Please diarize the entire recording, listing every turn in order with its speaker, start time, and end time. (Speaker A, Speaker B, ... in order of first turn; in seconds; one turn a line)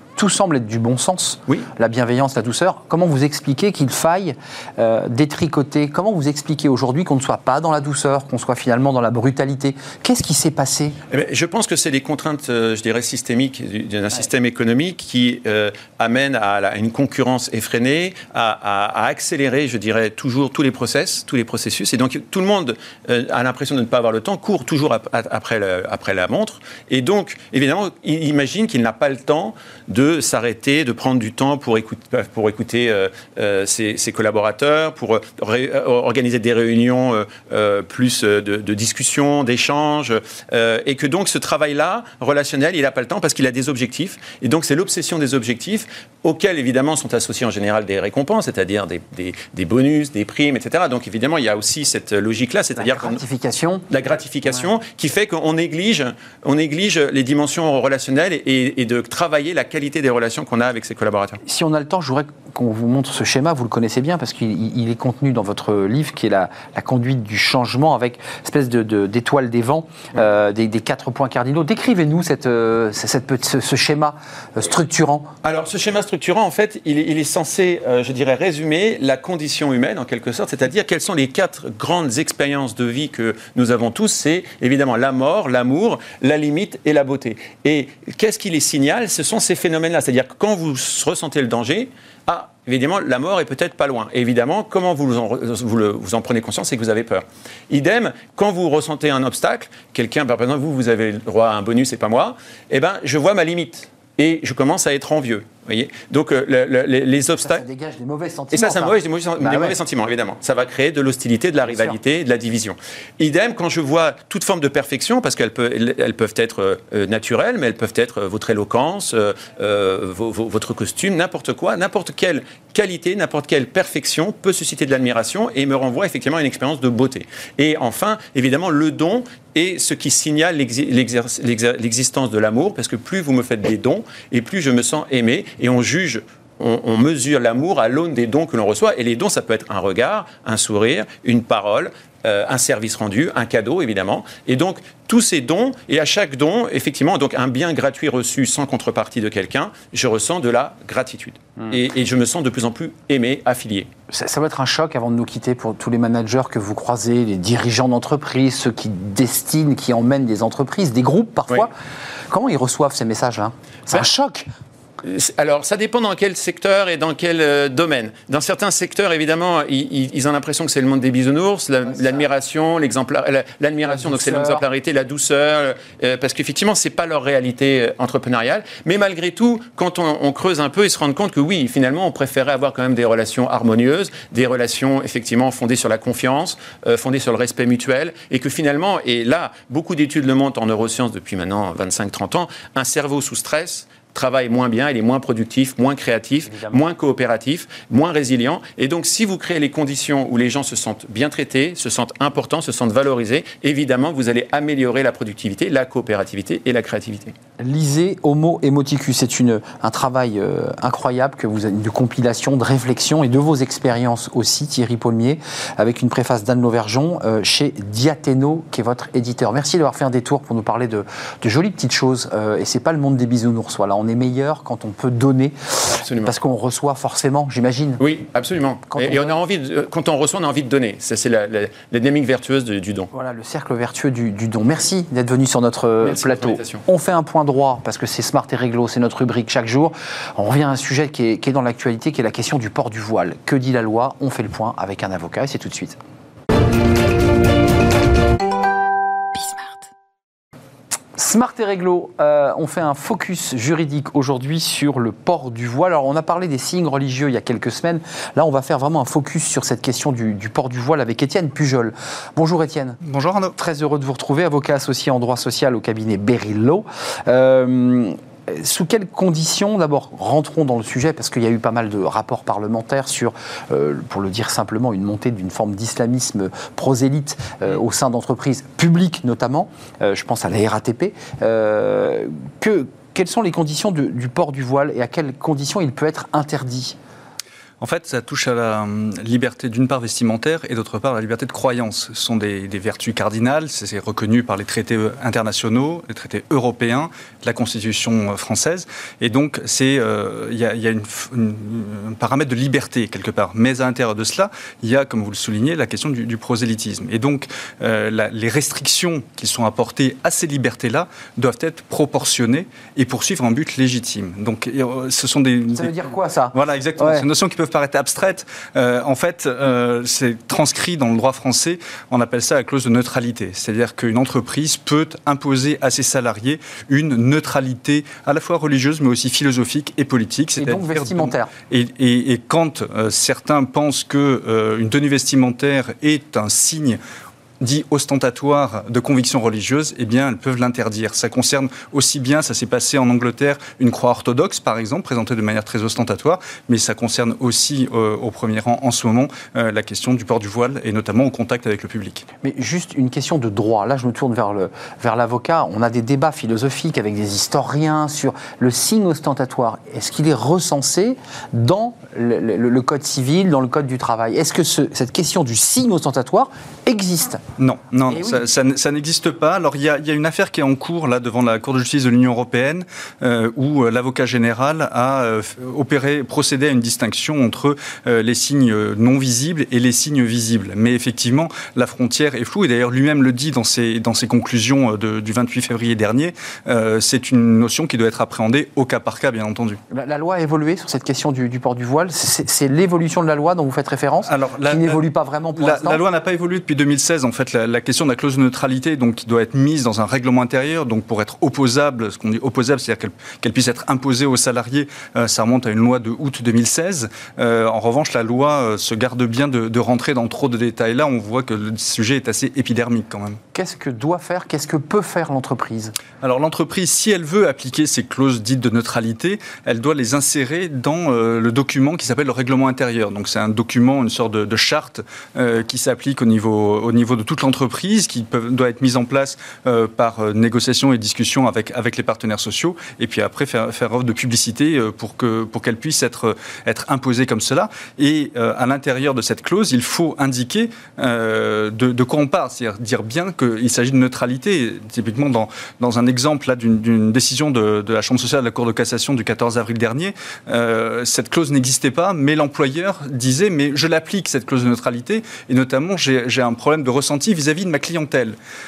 Speaker A: 0.2-11.0
Speaker B: 11.1-53.2
Speaker A: 52.8-53.8
Speaker B: 53.9-61.4
Speaker A: 61.4-75.3
Speaker B: 75.4-107.6
Speaker A: 107.3-109.8
Speaker B: 108.5-153.9
Speaker A: 111.6-112.0
Speaker A: 154.1-161.7
Speaker A: 162.3-164.5
Speaker B: 165.0-207.3
Speaker A: 173.8-174.6
Speaker A: 196.4-196.8
Speaker A: 207.6-228.0
Speaker B: 225.8-226.3
Speaker B: 228.0-233.1
Speaker A: 228.9-229.3
Speaker A: 233.1-246.0
Speaker B: 236.0-236.8
Speaker A: 251.1-263.0
Speaker C: 263.0-263.5
Speaker A: 263.5-287.0
Speaker C: 287.8-315.9
Speaker A: 315.7-317.3
Speaker C: 316.5-337.0
Speaker A: 330.6-331.5
Speaker C: 337.6-352.2
Speaker A: 352.4-367.4
Speaker C: 367.6-389.8
Speaker A: 368.1-368.4
Speaker A: 389.9-396.0
Speaker C: 394.2-395.0
Speaker C: 395.6-413.4
Speaker A: 413.5-415.9
Speaker C: 416.2-458.4